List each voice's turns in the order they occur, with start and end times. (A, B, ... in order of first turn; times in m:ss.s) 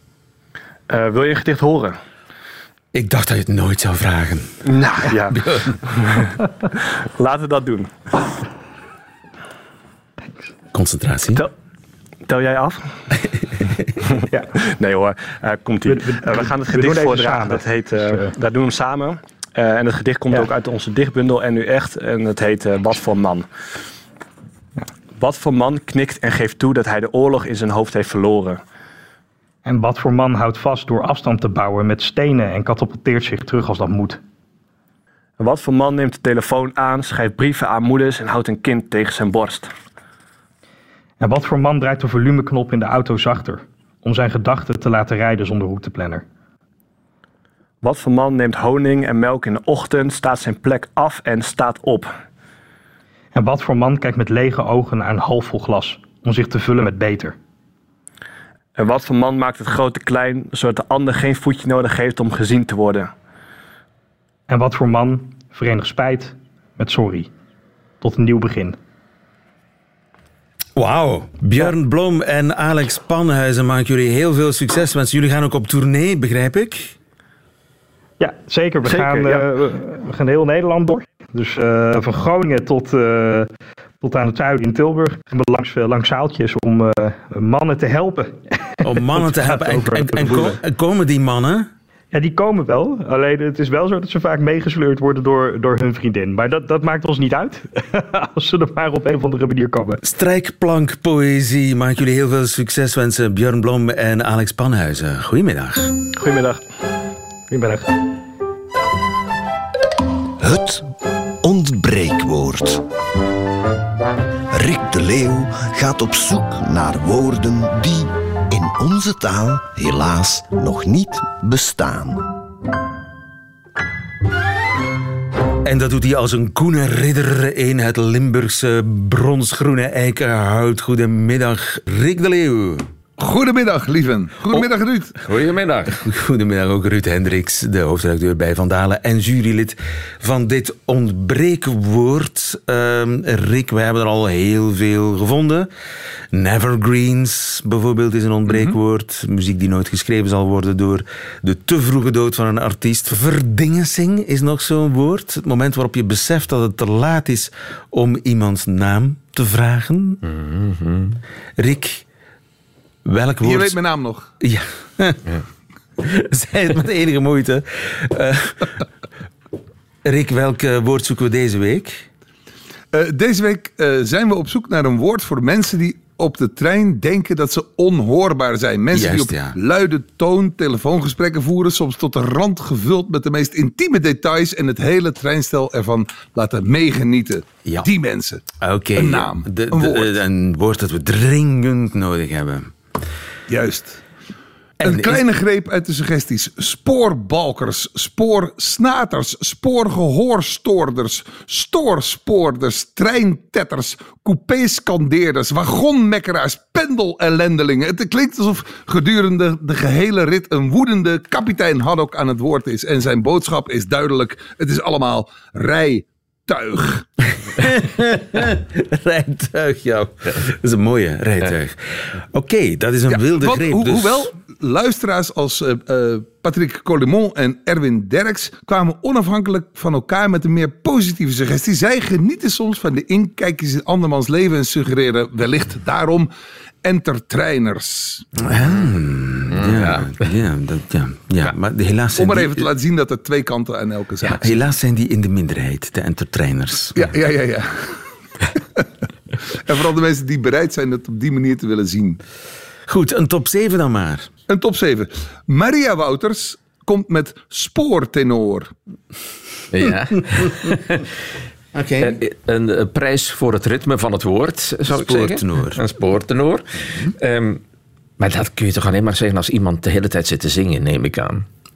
0:00.9-0:02.0 A
0:02.9-0:04.6 B
0:04.6-0:06.3 A
0:05.2-0:05.7 B
0:07.2-0:08.3 A
0:10.7-0:11.5 B
0:12.3-0:13.0 A
0:14.3-0:23.5 A
0:15.8-0:18.3 C
0:25.2-0:28.6 A
0:29.6-0:34.2 C
0:35.4-0:39.7 A
0:41.2-0:46.2 C
0:47.8-0:52.1 A
0:53.3-0:57.4 C
0:58.8-1:03.1 A
1:04.5-1:07.3 C
1:08.0-1:08.8 C
1:10.7-1:17.0 B
1:18.2-1:23.5 C
1:18.9-1:19.4 A
1:24.0-1:30.6 C
1:28.8-1:31.7 B
1:32.1-1:40.0 C
1:40.0-1:45.9 B
1:46.2-1:46.6 A
1:47.5-1:47.9 C
1:50.4-1:50.9 D
1:51.4-1:52.8 D
1:54.5-2:02.2 D
2:05.6-2:12.9 B
2:13.2-2:15.1 E
2:15.2-2:16.0 F
2:16.0-2:25.7 B
2:26.3-2:40.2 B
2:40.2-2:41.2 F
2:41.6-2:42.0 B
2:43.0-2:43.8 B
2:43.4-2:44.3 E
2:44.4-2:45.3 B
2:46.0-2:48.8 B
2:50.0-2:52.1 B
2:52.9-3:08.4 E
2:58.9-2:59.6 B
3:08.6-3:12.7 B
3:08.9-3:10.2 E
3:13.5-3:14.0 E
3:14.8-3:15.2 B
3:14.8-3:37.1 E
3:37.4-3:44.3 B
3:43.1-3:56.3 E
3:56.8-3:58.2 E
3:58.4-4:02.7 B
3:59.5-4:00.3 F
4:02.1-4:04.5 E
4:04.4-4:07.1 B
4:06.9-4:08.0 E
4:09.6-4:12.2 E
4:12.9-4:14.3 B
4:14.5-4:18.7 E
4:19.7-4:21.1 F
4:21.7-4:22.2 B
4:22.0-4:27.6 F
4:24.9-4:25.8 B
4:28.2-4:31.4 F